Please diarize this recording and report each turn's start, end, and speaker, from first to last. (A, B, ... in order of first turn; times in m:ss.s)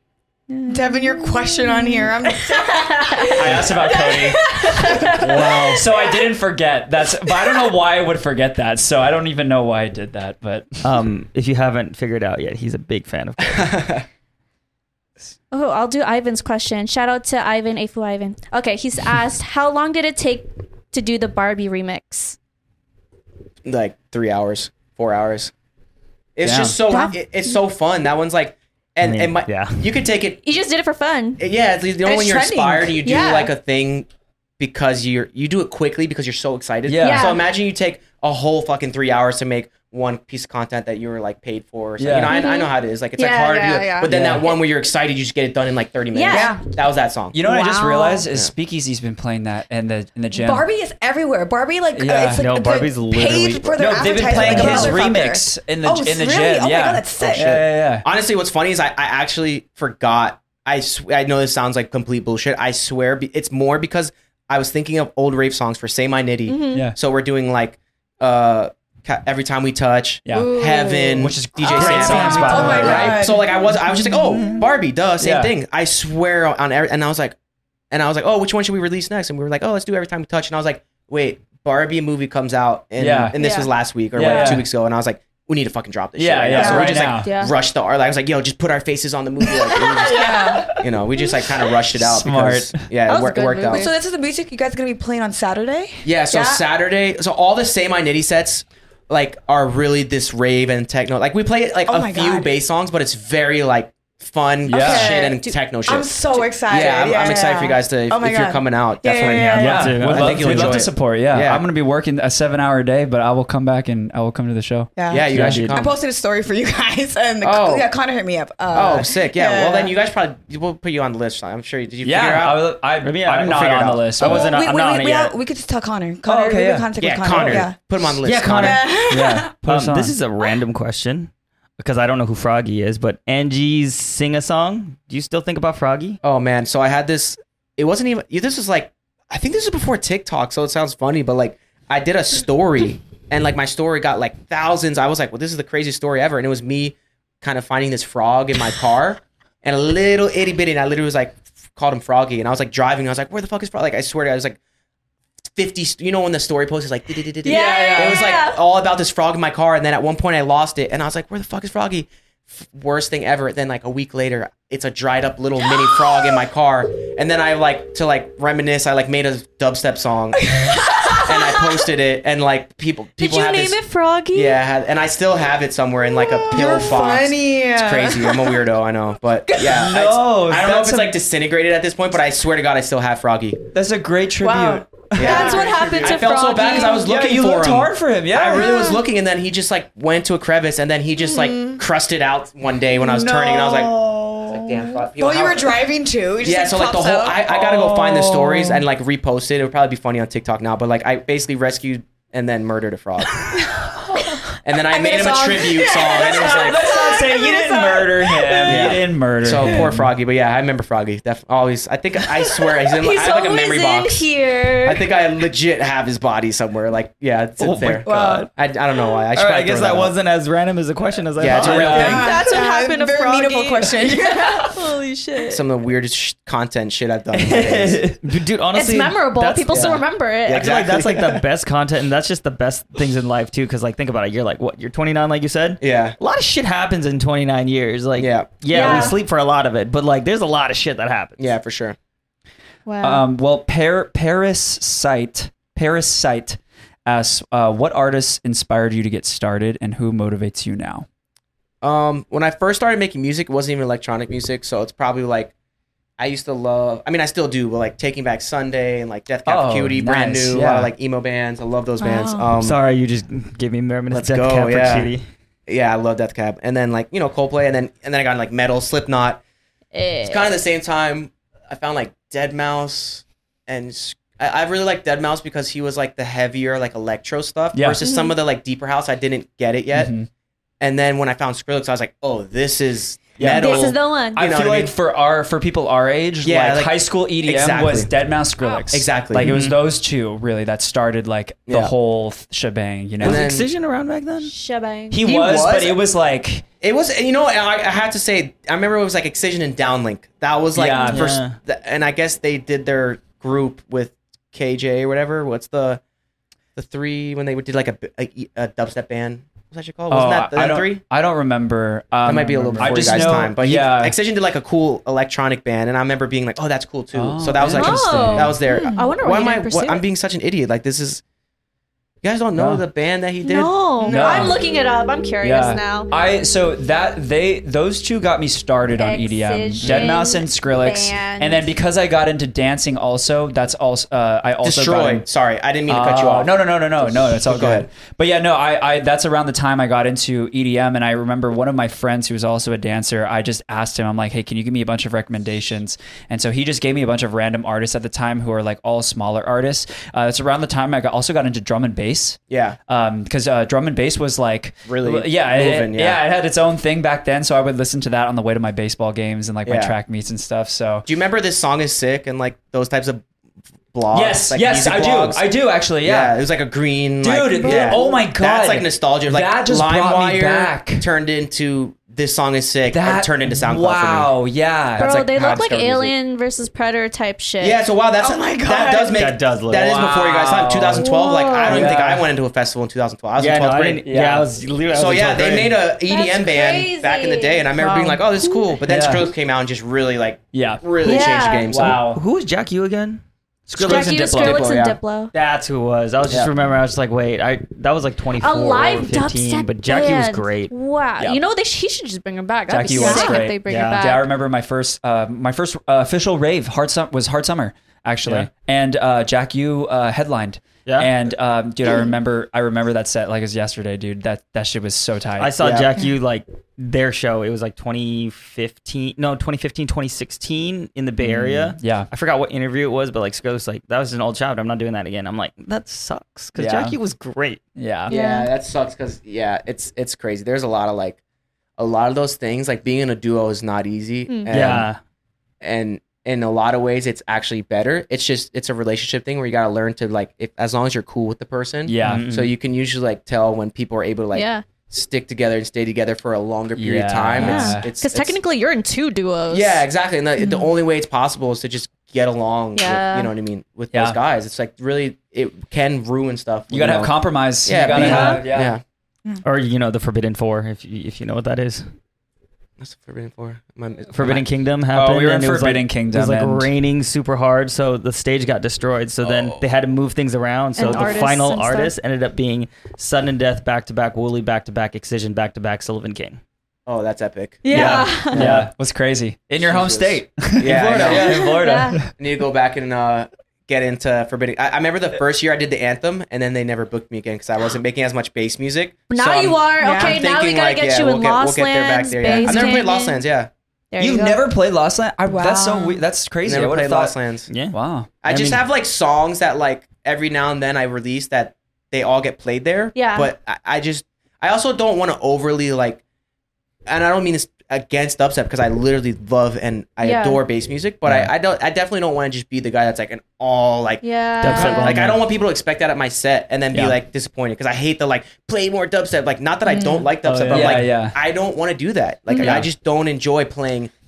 0:00.5-0:05.8 A
0:00.7-0:05.7 B
0:03.3-0:10.9 C
0:05.2-0:05.7 D
0:10.8-0:13.7 D
0:13.5-0:14.0 E
0:15.5-0:22.4 A
0:23.6-0:25.5 E
0:26.4-0:30.4 E
0:26.4-0:26.8 C
0:26.9-0:27.2 A
0:29.0-0:29.9 D
0:30.4-0:31.4 A
0:31.4-0:34.1 E
0:32.0-0:33.0 B
0:33.0-0:33.5 A
0:34.6-0:47.4 E
0:36.8-0:37.3 C
0:37.0-0:37.5 A
0:42.0-0:42.4 C
0:42.3-0:44.1 A
0:44.1-0:44.5 C
0:46.1-0:46.6 A
0:46.3-0:46.6 B
0:47.3-0:50.6 C
0:47.4-0:48.2 A
0:50.3-0:57.6 B
0:51.9-0:52.5 C
0:52.3-0:55.0 D
0:53.8-0:58.0 C
0:57.3-1:17.4 E
1:06.5-1:06.9 A
1:10.2-1:10.6 C
1:10.3-1:11.2 A
1:11.2-1:13.2 C
1:11.7-1:14.5 B
1:11.9-1:12.9 D
1:15.2-1:15.5 C
1:17.9-1:33.9 E
1:23.0-1:23.4 C
1:23.4-1:24.6 A
1:24.1-1:24.6 C
1:26.2-1:27.3 C
1:26.5-1:27.1 B
1:27.2-1:27.5 A
1:29.8-1:30.6 A
1:30.1-1:30.7 B
1:30.1-1:30.8 C
1:31.9-1:32.9 C
1:33.1-1:33.9 A
1:33.7-1:36.6 B
1:36.0-1:46.1 E
1:41.9-1:42.5 B
1:44.6-1:45.1 C
1:44.7-1:49.9 B
1:45.2-1:45.6 A
1:46.6-1:51.6 E
1:49.2-1:50.9 D
1:49.6-1:55.5 C
1:55.0-1:59.9 B
1:55.1-1:55.9 E
1:55.3-1:55.8 D
1:57.4-1:57.9 E
1:58.7-2:02.7 E
2:02.0-2:04.5 C
2:03.0-2:05.4 D
2:03.5-2:04.3 E
2:04.2-2:07.8 B
2:06.2-2:06.9 C
2:07.0-2:08.8 E
2:08.2-2:08.8 D
2:08.5-2:09.5 B
2:09.1-2:10.2 C
2:09.6-2:16.2 D
2:16.2-2:34.6 E
2:35.5-2:53.8 E
2:37.4-2:38.6 A
2:37.5-2:38.2 C
2:50.4-2:51.6 B
2:53.2-2:54.6 A
2:54.3-3:03.6 E
2:56.2-2:58.6 B
2:59.5-2:59.8 B
2:59.6-3:01.2 C
3:03.7-3:05.7 C
3:04.4-3:05.8 B
3:05.1-3:15.8 E
3:05.2-3:07.0 A
3:07.0-3:08.8 C
3:11.3-3:11.8 B
3:13.1-3:14.0 C
3:13.1-3:18.8 B
3:16.4-3:23.5 E
3:23.5-3:28.0 B
3:24.6-3:26.9 E
3:26.2-3:26.4 A
3:26.4-3:30.1 C
3:27.7-3:28.1 A
3:28.6-3:34.2 E
3:32.8-3:35.0 A
3:34.8-3:40.1 E
3:37.6-3:38.5 D
3:38.0-3:38.5 B
3:39.3-3:42.2 D
3:41.4-3:42.3 E
3:41.5-3:42.3 C
3:41.8-3:44.8 B
3:42.0-3:45.6 A
3:45.5-3:48.0 E
3:47.4-3:50.0 D
3:48.7-3:50.7 A
3:49.7-3:51.4 E
3:50.5-4:01.4 D
3:55.8-3:56.2 E
3:58.2-3:59.2 E
3:58.7-3:59.2 A
4:01.4-4:02.0 E
4:02.8-4:03.2 A
4:03.0-4:11.0 C
4:11.8-4:15.5 E
4:16.2-4:22.8 E
4:19.4-4:20.9 C
4:22.0-4:22.5 B
4:22.6-4:25.2 D
4:24.1-4:25.1 E
4:25.7-4:29.4 E
4:29.9-4:30.6 A
4:30.2-4:40.1 E
4:37.7-4:38.0 C
4:38.0-4:38.3 A
4:39.9-4:40.3 C
4:40.8-4:44.9 E
4:43.4-4:53.4 C
4:43.5-4:44.4 A
4:46.4-4:48.1 E
4:48.9-4:49.5 E
4:49.4-4:49.8 D
4:51.7-4:51.9 E
4:53.2-4:54.5 D
4:53.2-4:53.7 E
4:54.4-4:55.2 A
4:55.1-4:56.6 C
4:55.2-4:56.0 E
4:56.8-5:06.0 E
5:00.7-5:01.2 C
5:01.1-5:01.6 D
5:06.7-5:11.0 E
5:10.1-5:14.2 C
5:12.2-5:21.2 E
5:12.6-5:13.3 D
5:17.1-5:18.6 C
5:17.6-5:20.0 A
5:18.7-5:19.1 B
5:22.2-5:24.6 E
5:22.6-5:22.8 C
5:23.4-5:26.1 A
5:24.0-5:24.6 C
5:25.4-5:35.2 C
5:28.9-5:31.7 A
5:29.8-5:30.2 D
5:34.6-5:37.9 E
5:35.9-6:01.1 C
5:52.5-5:52.8 E
5:54.9-5:56.2 E
5:59.6-5:59.9 E
6:01.0-6:03.2 E
6:03.9-6:05.5 E
6:04.1-6:06.4 C
6:06.0-6:14.3 E
6:07.2-6:11.1 C
6:07.6-6:08.2 B
6:12.9-6:15.2 C
6:15.0-6:16.1 E
6:15.0-6:17.8 A
6:17.6-6:24.0 E
6:18.2-6:19.2 B
6:19.1-6:20.0 D
6:19.7-6:21.1 C
6:21.0-6:21.9 A
6:21.7-6:22.2 C
6:23.4-6:25.8 D
6:24.0-6:24.5 C
6:24.9-6:32.0 E
6:26.1-6:27.7 A
6:27.8-6:28.6 B
6:28.8-6:29.3 C
6:30.5-6:30.8 C
6:31.0-6:31.7 A
6:31.7-6:32.2 C
6:32.0-6:34.6 D
6:33.7-6:34.3 C
6:33.8-6:35.3 A
6:33.8-6:35.0 E
6:35.3-6:40.7 D
6:38.4-6:44.2 A
6:42.7-6:55.6 C
6:43.0-6:43.4 B
6:43.6-6:44.1 D
6:48.2-6:48.5 D
6:50.8-6:51.1 D
6:55.4-7:07.6 D
6:55.6-6:55.9 E
7:01.2-7:02.1 C
7:06.6-7:07.0 C
7:07.8-7:08.1 C
7:08.1-7:11.2 E
7:08.1-7:08.5 A
7:11.8-7:14.9 E
7:14.5-7:15.0 D
7:15.6-7:28.4 E
7:21.8-7:22.2 C
7:22.0-7:22.5 D
7:24.3-7:24.6 A
7:26.8-7:27.9 C
7:27.4-7:29.8 A
7:29.5-7:37.1 E
7:30.4-7:30.7 B
7:32.8-7:33.3 A
7:33.9-7:34.2 C
7:36.7-7:38.8 C
7:37.6-7:38.8 E
7:37.9-7:38.4 A
7:38.0-7:38.3 D
7:39.4-7:41.9 D
7:42.8-7:44.3 E
7:44.1-7:56.4 D
7:44.2-7:46.7 C
7:49.2-7:49.6 E
7:50.8-7:51.9 A
7:56.9-7:58.6 E
7:57.6-7:58.4 A
7:57.7-7:58.7 D
7:57.7-8:02.0 C
7:59.6-8:01.4 E
8:00.6-8:01.8 D
8:01.1-8:02.0 A
8:02.2-8:13.5 E
8:09.1-8:13.2 A
8:09.8-8:10.2 B
8:12.2-8:12.8 B
8:13.9-8:14.4 A
8:14.0-8:17.2 C
8:15.2-8:16.0 B
8:16.4-8:17.5 E
8:17.5-8:18.6 D
8:17.7-8:18.1 C
8:18.2-8:26.0 E
8:22.9-8:23.3 A
8:26.9-8:43.9 E
8:30.0-8:30.4 A
8:31.0-8:31.3 C
8:34.0-8:35.0 A
8:34.4-8:35.2 D
8:39.7-8:40.0 B
8:40.2-8:40.9 D
8:40.4-8:41.2 C
8:42.4-8:42.6 D